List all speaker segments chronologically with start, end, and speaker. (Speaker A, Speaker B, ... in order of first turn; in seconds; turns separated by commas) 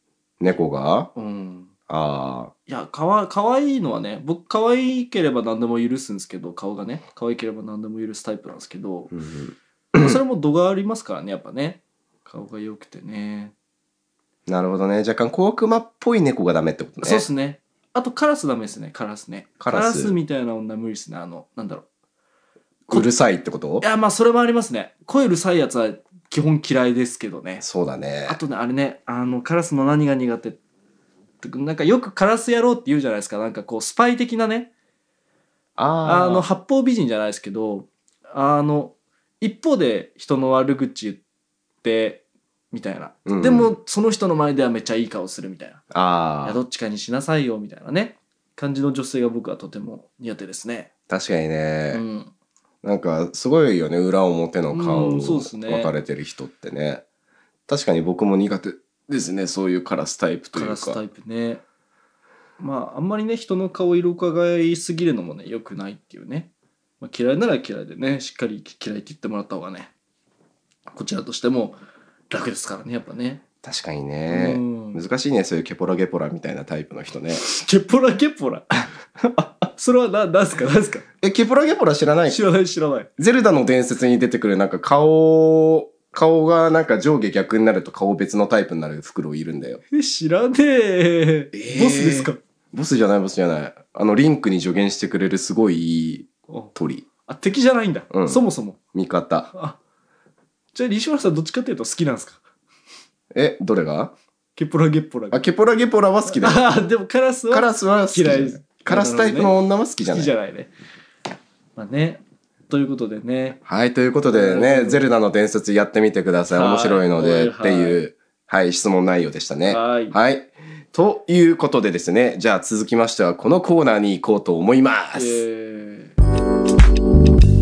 Speaker A: 0.4-1.1, Speaker B: 1.1-1.7, Speaker A: 1.9-2.5, Speaker B: 2.7-9.1, Speaker A: 9.1-10.2, Speaker B: 9.9-13.5, Speaker A: 14.5-17.2, Speaker B: 17.0-21.8, Speaker A: 19.6-20.1, Speaker A: 22.9-23.8, Speaker B: 23.8-27.6, Speaker A: 27.6-28.4, Speaker B: 28.3-30.6, Speaker B: 31.4-34.7, Speaker A: 35.8-36.5, Speaker B: 36.0-41.2, Speaker B: 41.8-45.8, Speaker A: 43.2-43.7, Speaker A: 45.9-46.6, Speaker B: 46.4-50.9, Speaker A: 51.1-52.0, Speaker B: 51.9-52.3, Speaker A: 52.8-57.0, Speaker B: 54.7-55.9, Speaker A: 57.7-61.0, Speaker B: 60.5-61.6, Speaker B: 62.6-66.5, Speaker B: 67.0-69.9, Speaker B: 70.9-71.8, Speaker B: 72.3-73.4, Speaker A: 73.6-77.4, Speaker B: 74.3-75.0, Speaker B: 77.4-81.0, Speaker A: 81.2-82.4, Speaker B: 82.3-83.1, Speaker A: 83.2-89.8, Speaker B: 89.9-92.4, Speaker A: 91.5-97.0, Speaker B: 96.5-96.7, Speaker B: 97.2-98.8, Speaker A: 98.1-98.4, Speaker A: 98.9-99.5, Speaker B: 99.5-99.8, Speaker B: 100.7-102.4, Speaker A: 103.3-104.1, Speaker B: 104.5-105.4, Speaker A: 105.3-106.7, Speaker B: 106.2-110.7, Speaker A: 107.5-110.3, Speaker B: 111.8-113.6, Speaker A: 113.6-125.4, Speaker B: 114.3-115.0, Speaker B: 116.5-118.0, Speaker B: 119.6-120.2, Speaker B: 125.1-126.1